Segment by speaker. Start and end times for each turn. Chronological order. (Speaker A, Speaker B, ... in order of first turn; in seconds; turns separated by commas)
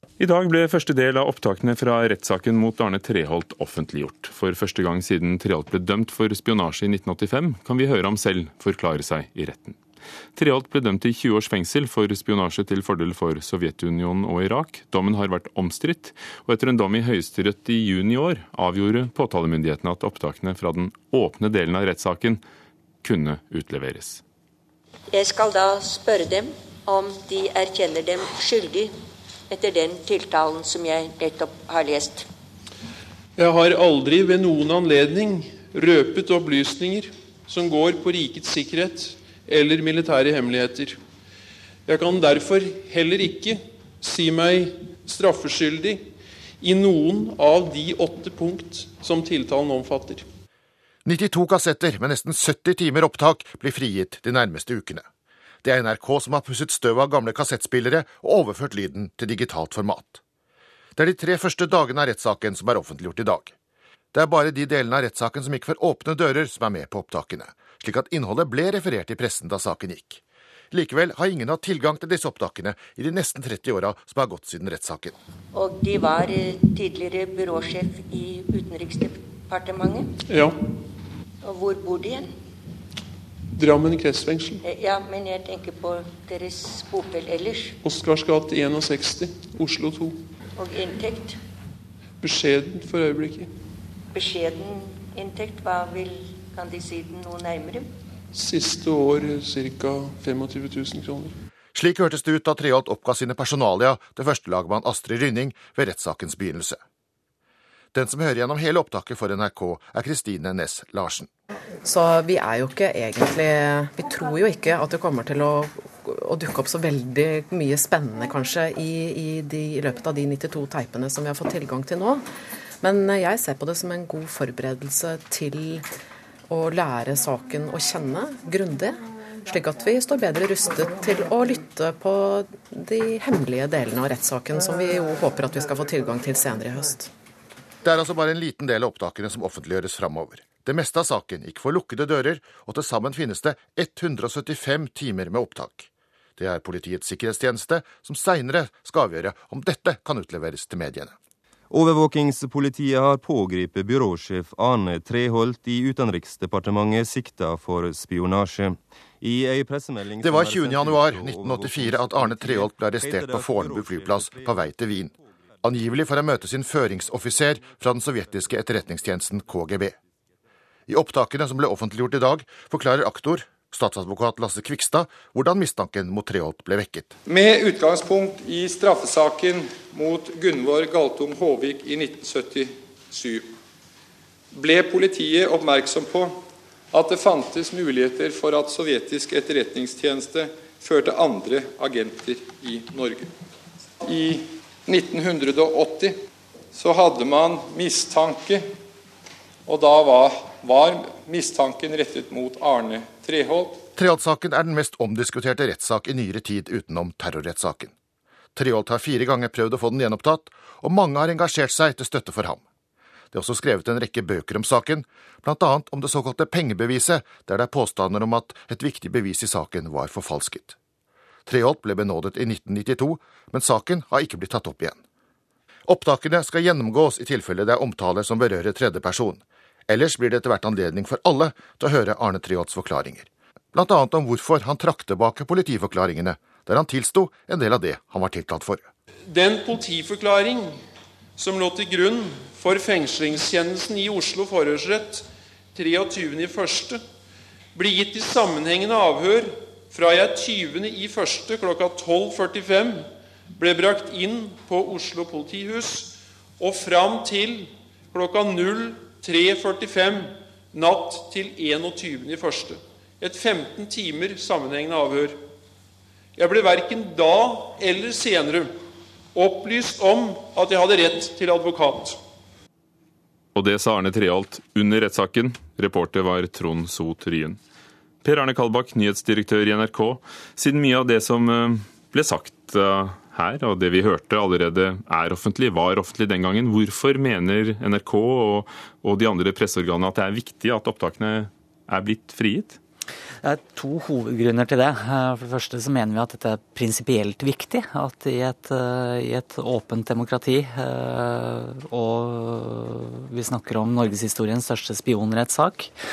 Speaker A: 0.2-9.8, Speaker A: 10.4-22.4, Speaker A: 23.0-24.2, Speaker B: 25.1-28.9, Speaker B: 29.5-32.3, Speaker C: 33.4-41.0, Speaker C: 41.9-46.0, Speaker C: 46.6-50.2, Speaker D: 51.0-55.0, Speaker D: 55.6-60.2, Speaker D: 61.0-63.5, Speaker D: 64.1-75.2, Speaker B: 75.5-80.1, Speaker C: 80.3-80.6, Speaker B: 81.4-82.3, Speaker C: 83.5-84.6, Speaker B: 84.6-87.8, Speaker C: 87.8-90.2, Speaker B: 90.6-91.4, Speaker C: 92.2-93.5, Speaker B: 94.1-97.9, Speaker C: 98.3-101.3, Speaker D: 101.8-106.8, Speaker D: 107.9-111.3, Speaker E: 111.8-122.2, Speaker E: 122.8-125.9, Speaker E: 126.5-137.1, Speaker D: 137.8-151.1, Speaker F: 151.7-166.0, Speaker D: 160.2-169.9, Speaker F: 167.3-167.7, Speaker D: 170.9-177.1, Speaker G: 177.3-183.5, Speaker G: 184.5-186.4, Speaker G: 186.9-193.3, Speaker G: 194.0-196.2, Speaker G: 196.7-198.8, Speaker G: 199.7-203.8, Speaker D: 204.0-207.9, Speaker D: 208.6-212.6, Speaker D: 213.3-220.8, Speaker D: 221.5-225.0, Speaker D: 225.9-238.9, Speaker C: 239.3-240.7, Speaker C: 241.4-247.0, Speaker C: 247.8-265.4, Speaker C: 266.4-268.7, Speaker C: 269.4-272.2, Speaker A: 273.6-277.6, Speaker A: 278.2-292.8, Speaker H: 293.4-305.9